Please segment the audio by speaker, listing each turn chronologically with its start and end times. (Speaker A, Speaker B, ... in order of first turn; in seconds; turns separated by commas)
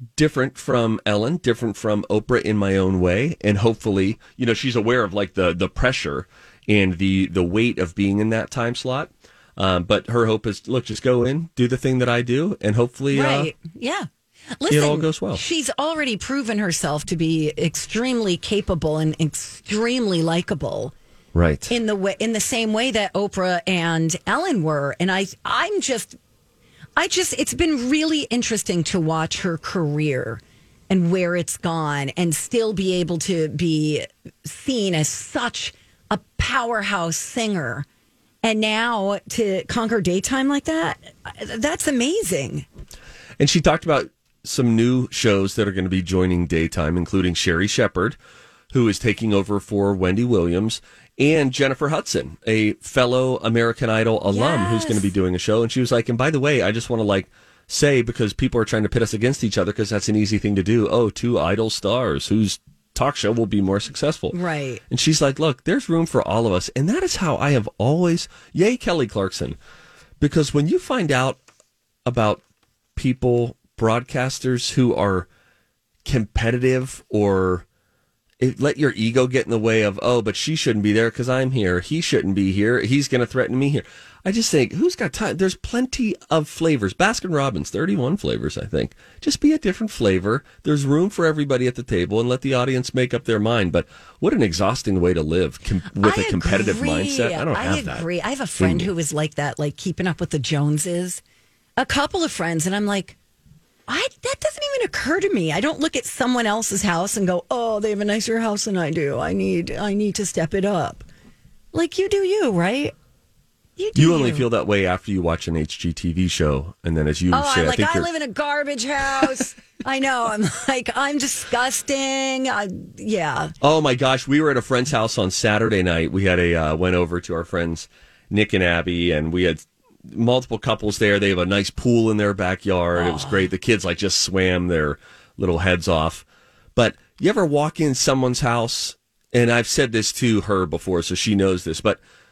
Speaker A: 0.2-13.5, Speaker B: 13.1-14.1, Speaker B: 14.6-20.9, Speaker A: 14.7-15.4, Speaker A: 21.3-21.7, Speaker B: 21.7-26.2, Speaker B: 27.0-37.9, Speaker B: 38.4-42.7, Speaker A: 43.4-48.2, Speaker A: 48.7-64.4, Speaker B: 54.3-55.1, Speaker B: 64.3-64.8, Speaker A: 64.9-69.6, Speaker A: 70.2-71.4, Speaker A: 72.1-72.4, Speaker A: 73.0-75.3, Speaker A: 76.0-77.7, Speaker A: 78.4-98.1, Speaker B: 96.0-101.2, Speaker A: 98.6-98.9, Speaker B: 101.8-103.2, Speaker B: 103.9-111.0, Speaker B: 111.7-112.9, Speaker B: 113.8-114.5, Speaker A: 114.0-118.1, Speaker B: 117.3-123.5, Speaker A: 123.6-142.0, Speaker B: 133.0-133.5